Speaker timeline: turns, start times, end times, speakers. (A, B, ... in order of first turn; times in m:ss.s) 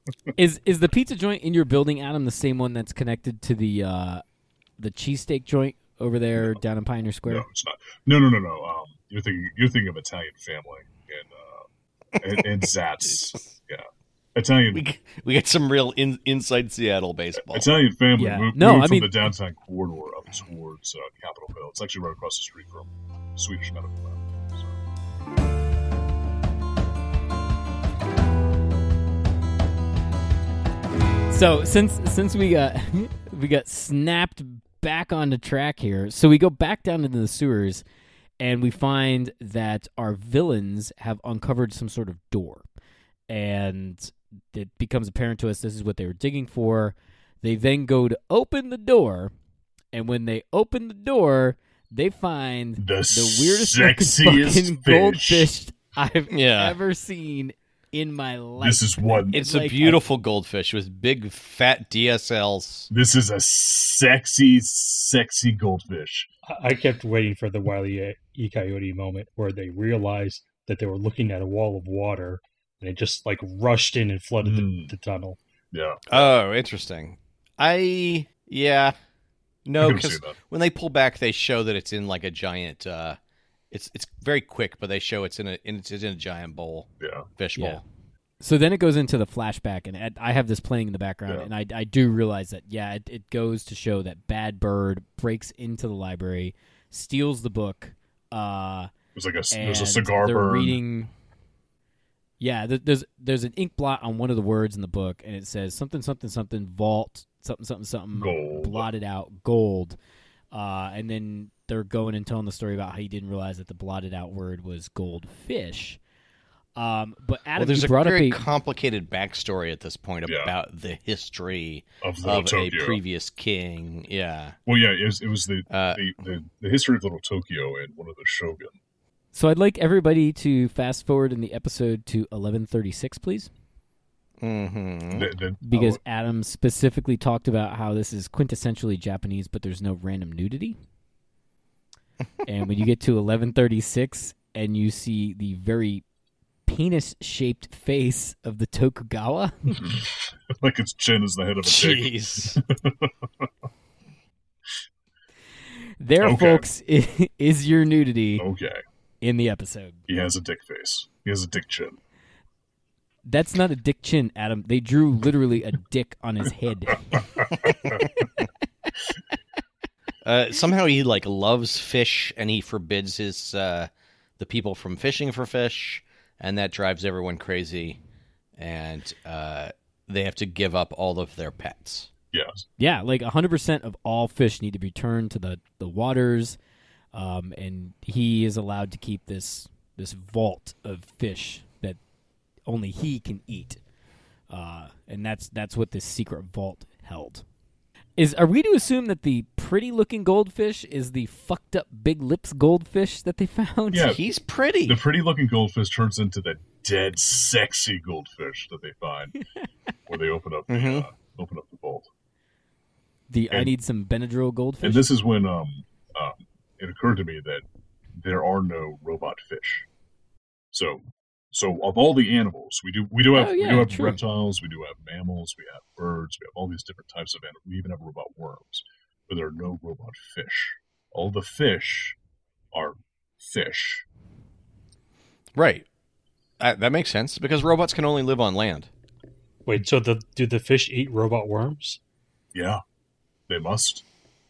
0:00.4-0:04.2 A
0:04.8-0:07.4 A
0:07.3-0:11.6 B
0:12.2-0:14.8 B
0:12.2-0:12.6 C
0:14.7-0:17.7 C
0:17.4-0:24.8 B
0:18.2-0:19.3 A
0:31.3-0:37.8 A
0:38.4-0:42.7 A
0:43.3-0:49.3 A
0:49.9-1:00.0 A
0:52.8-0:55.5 B
0:56.3-0:56.8 C
0:58.6-0:59.4 B
0:59.3-1:02.9 C
1:02.9-1:06.3 B
1:06.5-1:15.4 D
1:14.4-1:14.9 B
1:15.7-1:16.3 B
1:16.1-1:18.9 C
1:19.6-1:23.2 C
1:19.8-1:20.4 B
1:23.7-1:27.8 C
1:27.0-1:27.2 B
1:27.6-1:27.8 A
1:28.4-1:38.9 A
1:39.1-1:40.8 B
1:39.5-1:41.1 A
1:42.4-1:50.0 A
1:48.1-1:48.9 B
1:50.5-1:56.0 A
1:56.8-1:58.4 A
1:57.6-2:04.6 C
2:00.2-2:00.5 B
2:02.0-2:03.0 B
2:04.6-2:08.8 B
2:05.7-2:06.0 C
2:09.3-2:13.5 A
2:14.4-2:15.3 C
2:15.1-2:16.0 B
2:15.6-2:20.8 A
2:22.4-2:26.0 A
2:26.6-2:29.9 A
2:29.7-2:33.5 B
2:31.6-2:32.6 C
2:36.0-2:38.4 A
2:36.2-2:36.6 B
2:38.4-2:38.8 B
2:39.2-2:40.0 A
2:40.1-2:42.0 B
2:43.2-2:47.3 A
2:50.2-2:58.0 C
2:58.6-3:02.1 C
3:02.3-3:02.6 B
3:02.8-3:06.6 A
3:07.1-3:12.0 A
3:12.7-3:13.8 A
3:14.5-3:17.4 A
3:18.2-3:24.2 A
3:23.9-3:24.2 B
3:24.0-3:25.0 C
3:24.8-3:29.4 B
3:30.1-3:32.1 B
3:30.7-3:31.0 C
3:33.3-3:35.0 A
3:34.8-3:37.6 B
3:38.2-3:39.9 B
3:40.7-3:52.2 B
3:43.3-3:44.2 A
3:52.7-3:54.0 B
3:55.5-3:55.8 C
3:56.6-3:58.9 C
3:59.6-4:02.0 D
4:02.5-4:02.8 B
4:03.5-4:04.0 B